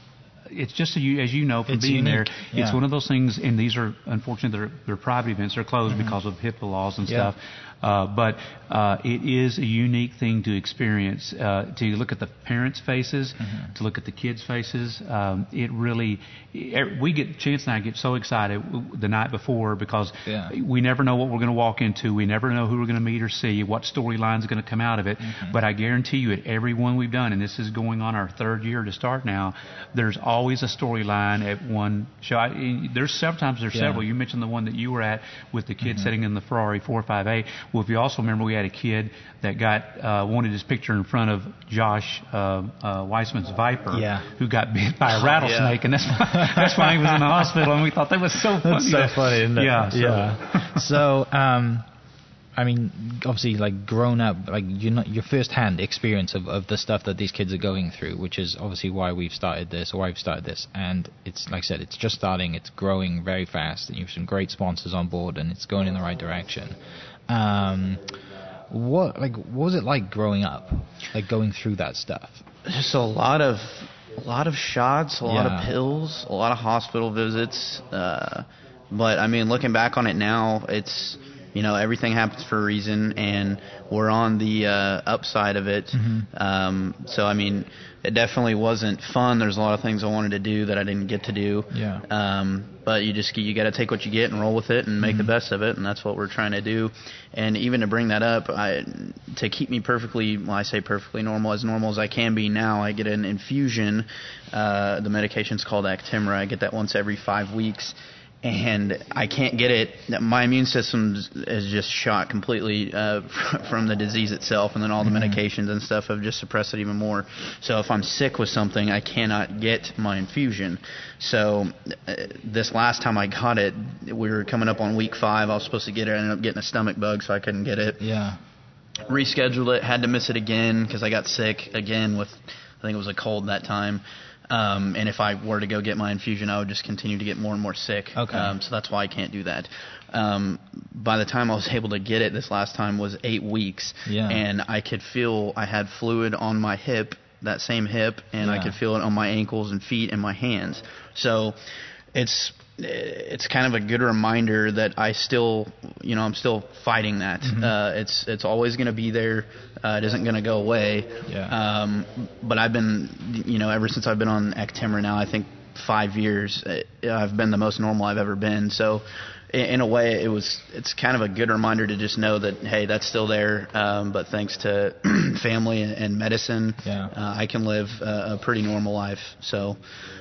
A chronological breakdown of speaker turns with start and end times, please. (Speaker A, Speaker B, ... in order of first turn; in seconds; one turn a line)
Speaker A: 0.5-50.9
Speaker B: 1.7-2.8
Speaker B: 7.0-7.3
Speaker B: 13.4-13.7
Speaker B: 20.2-20.5
Speaker B: 25.2-25.6
Speaker B: 33.7-34.0
Speaker B: 35.8-36.1
Speaker B: 43.9-44.2
Speaker C: 45.4-45.8
Speaker B: 46.3-47.4
Speaker B: 48.6-51.9
Speaker B: 52.5-66.8
Speaker B: 67.3-68.1
Speaker B: 68.7-72.4
Speaker C: 72.7-128.0
Speaker B: 75.2-75.7
Speaker B: 85.9-86.3
Speaker B: 91.7-92.0
Speaker B: 95.0-95.3
Speaker B: 115.0-115.4
Speaker B: 128.0-128.4
Speaker C: 129.1-151.6
Speaker B: 138.1-138.5
Speaker B: 144.1-144.4
Speaker B: 148.4-148.8
Speaker C: 152.1-179.8
Speaker B: 157.4-157.7
Speaker B: 161.2-161.5
Speaker B: 176.8-177.1